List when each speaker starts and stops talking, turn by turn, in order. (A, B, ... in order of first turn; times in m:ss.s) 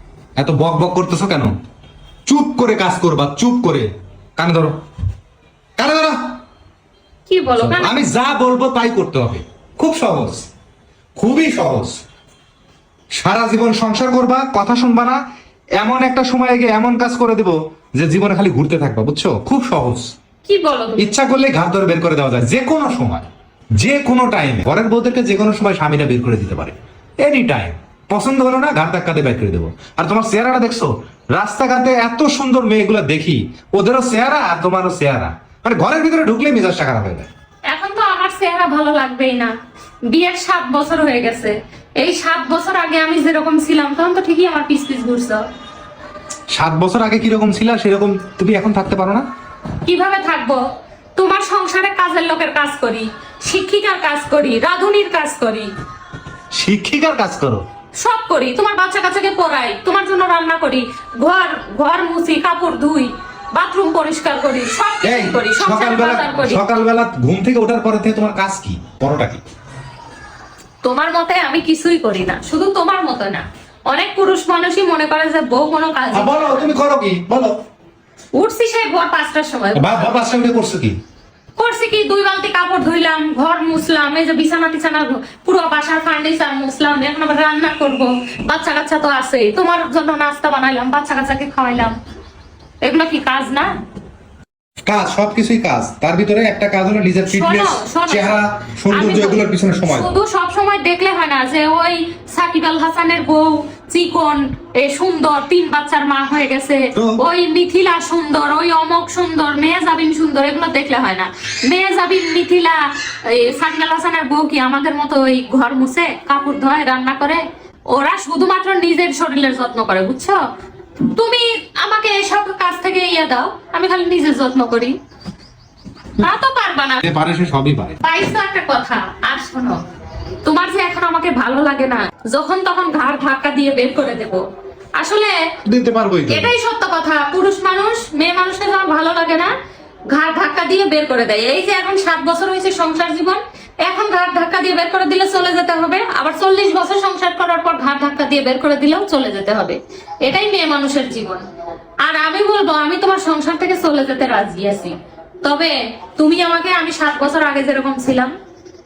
0:00.4-0:01.5 A
0:02.2-0:04.8 A
0:05.8-0:06.3 A
0:07.3-0:08.0 B
0:07.6-0:10.5 A
0:11.2-0:12.0 A
0:13.2-0:15.2 A
0:15.8-0:20.1 A
0:20.4-0:21.1 B
0:21.0-0:23.3 A
0:23.8-0:37.3 A
0:37.7-0:39.5 B
0:40.1-0:45.4 B
0:46.5-0:49.2 A
0:49.8-0:50.6 B
0:51.2-0:55.7 B
0:56.5-0:57.6 A
0:58.0-1:06.6 B
1:05.0-1:09.4 A
1:10.8-1:16.7 B
1:16.1-1:17.6 A
1:18.3-1:20.0 B
1:19.7-1:21.0 A
1:21.6-1:31.9 B
1:32.8-1:33.7 B
1:34.8-1:40.1 A
1:37.3-1:38.4 B
1:38.9-2:00.4 B
1:46.9-1:47.2 A
2:01.1-2:05.0 B
2:06.2-2:07.0 B
2:07.0-2:08.0 A
2:08.0-2:09.8 B
2:10.4-2:14.4 B
2:15.0-2:15.3 B
2:15.6-2:16.5 A
2:16.2-2:19.5 B
2:20.1-2:31.4 B
2:32.0-2:38.3 B